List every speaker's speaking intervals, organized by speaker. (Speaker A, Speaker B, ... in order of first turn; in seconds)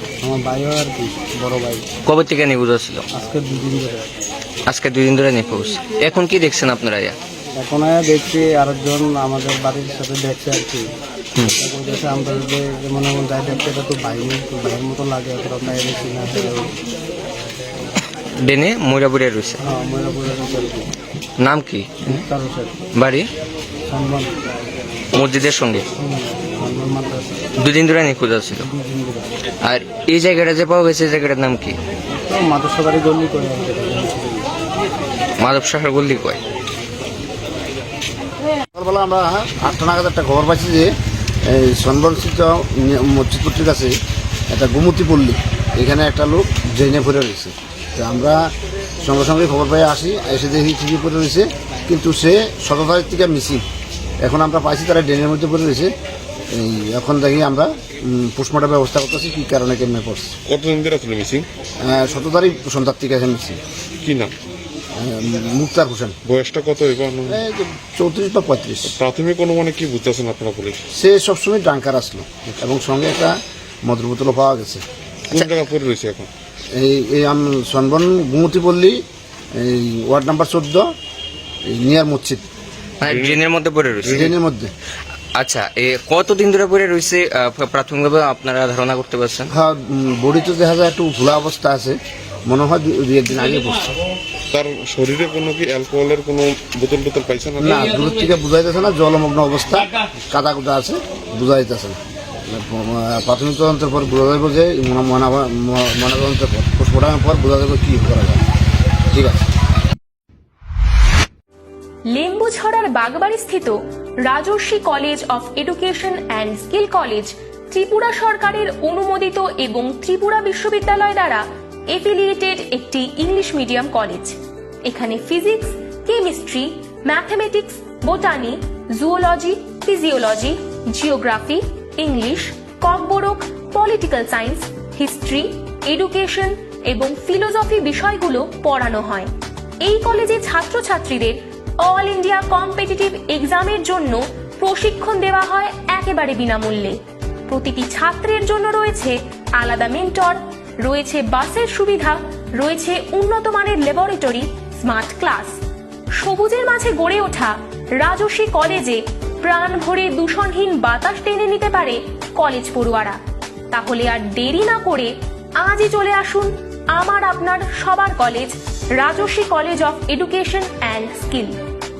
Speaker A: 0.2-1.9, 3.1-4.2, 7.5-10.9, 11.5-16.7, 19.6-20.9, 22.1-22.9, 23.9-24.4, 25.9-27.4, 28.6-29.3, 32.2-34.5
Speaker B: 2.0-3.0, 4.7-7.1, 18.4-19.6, 21.4-22.2, 22.9-23.3, 25.1-25.8, 27.6-28.7, 29.6-31.8, 35.4-36.4, 83.0-84.3, 85.4-89.5
Speaker C: 38.7-40.9, 41.4-44.0, 44.5-53.6, 54.2-55.9, 56.5-60.3, 61.8-63.6, 65.0-66.2, 67.3-69.0, 70.9-74.8, 76.7-80.9, 81.7-82.4, 84.1-84.7, 89.5-93.9, 97.6-108.4, 109.0-109.5
Speaker D: 60.5-61.5, 64.0-64.3, 66.2-67.4, 68.9-70.8, 75.3-76.3, 83.0-83.5, 84.0-84.3, 94.5-97.9
Speaker E: 112.1-155.6, 156.1-163.2, 163.7-171.6